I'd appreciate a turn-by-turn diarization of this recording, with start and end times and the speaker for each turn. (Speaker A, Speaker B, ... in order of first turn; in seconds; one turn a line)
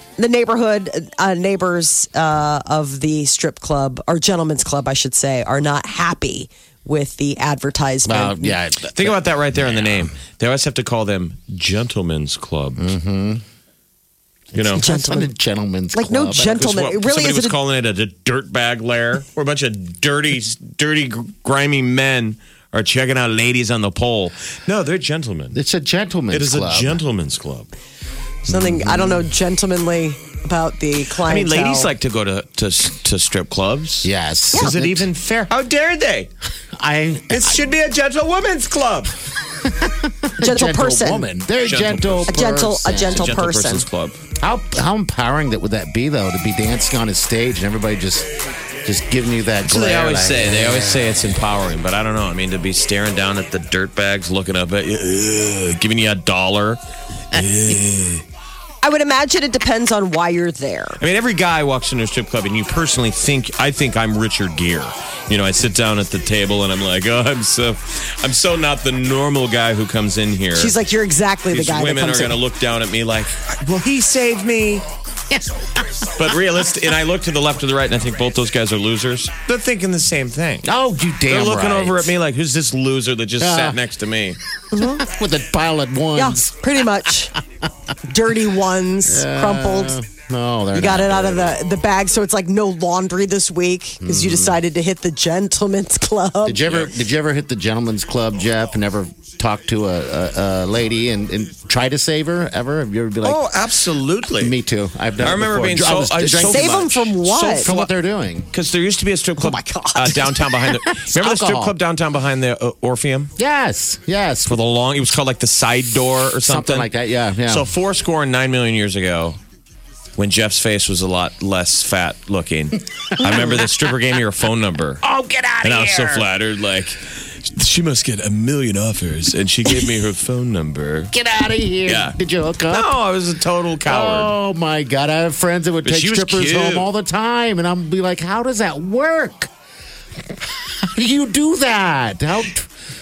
Speaker A: 0.2-8.6
Speaker B: 8.1-10.1
Speaker C: 8.9-12.8
Speaker B: 12.8-13.4
Speaker C: 14.5-14.9
Speaker B: 14.6-16.6
Speaker A: 14.7-15.3
Speaker A: 15.9-17.6
Speaker C: 16.4-25.6
Speaker B: 25.5-27.0
Speaker C: 26.3-27.7
Speaker B: 28.5-29.3
Speaker A: 28.5-31.9
Speaker C: 31.2-36.3
Speaker B: 34.0-35.1
Speaker B: 36.8-37.6
Speaker C: 37.3-39.1
Speaker B: 39.6-43.4
Speaker A: 40.4-41.3
Speaker C: 41.6-44.2
Speaker A: 42.3-43.9
Speaker B: 44.4-48.3
Speaker B: 48.8-51.2
Speaker C: 49.6-56.8
Speaker C: 57.3-58.2
Speaker A: 58.8-61.0
Speaker C: 61.0-70.8
Speaker A: 70.5-72.4
Speaker C: 71.5-74.8
Speaker B: 75.3-76.1
Speaker C: 76.2-80.7
Speaker B: 80.6-82.1
Speaker C: 81.3-84.4
Speaker B: 83.4-83.8
Speaker A: 84.7-85.0
Speaker B: 84.8-86.6
Speaker A: 86.1-87.3
Speaker A: 88.1-90.0
Speaker B: 89.1-91.7
Speaker A: 90.7-96.7
Speaker B: 94.0-94.6
Speaker B: 96.4-103.5
Speaker C: 96.7-96.9
Speaker C: 103.2-104.5
Speaker B: 104.4-106.8
Speaker C: 105.2-107.9
Speaker A: 106.4-107.7
Speaker B: 107.6-108.5
Speaker C: 108.5-113.3
Speaker A: 109.4-110.8
Speaker B: 111.0-111.8
Speaker B: 113.4-114.6
Speaker C: 114.5-116.9
Speaker B: 116.4-117.7
Speaker C: 117.5-119.4
Speaker C: 120.2-125.0
Speaker B: 123.2-123.7
Speaker B: 125.0-126.3
Speaker C: 125.6-131.1
Speaker B: 131.1-132.9
Speaker C: 131.8-134.3
Speaker B: 133.9-139.5
Speaker C: 135.8-136.9
Speaker B: 140.7-142.7